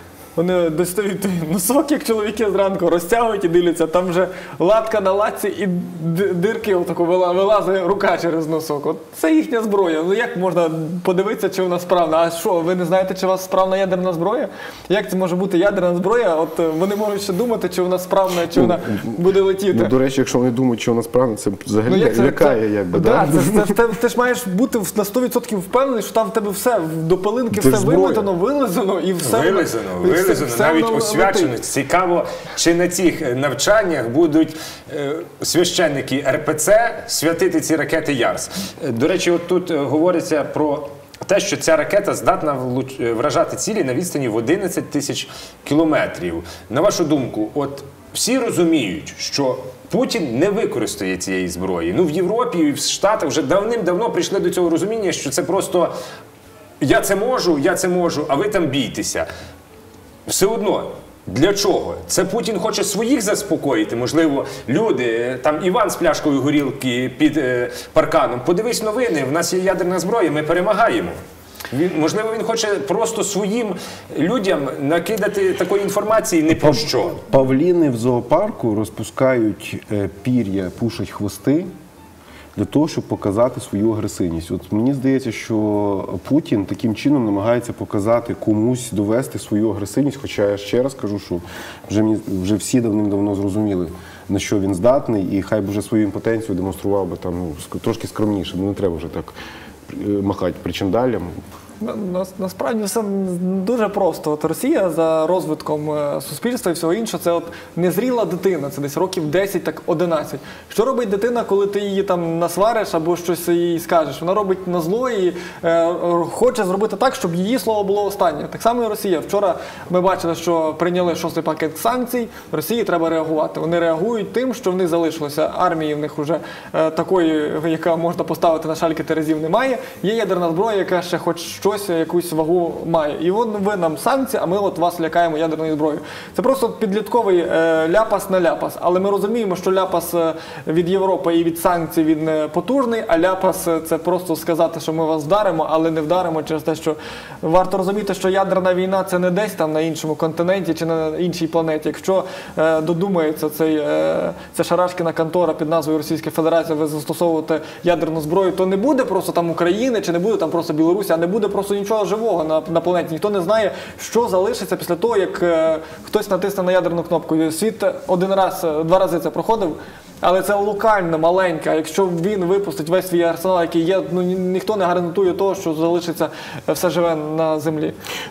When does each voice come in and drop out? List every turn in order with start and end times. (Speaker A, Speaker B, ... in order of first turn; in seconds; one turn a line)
Speaker A: 0.4-19.9
Speaker B: 18.5-19.2
Speaker B: 19.7-23.8
Speaker A: 21.9-31.5
Speaker B: 27.5-28.3
Speaker C: 29.2-55.9
Speaker C: 56.8-59.3
Speaker C: 60.3-71.2
Speaker C: 71.7-77.2
Speaker B: 76.5-81.7
Speaker B: 82.5-99.3
Speaker B: 99.9-101.3
Speaker A: 101.8-177.9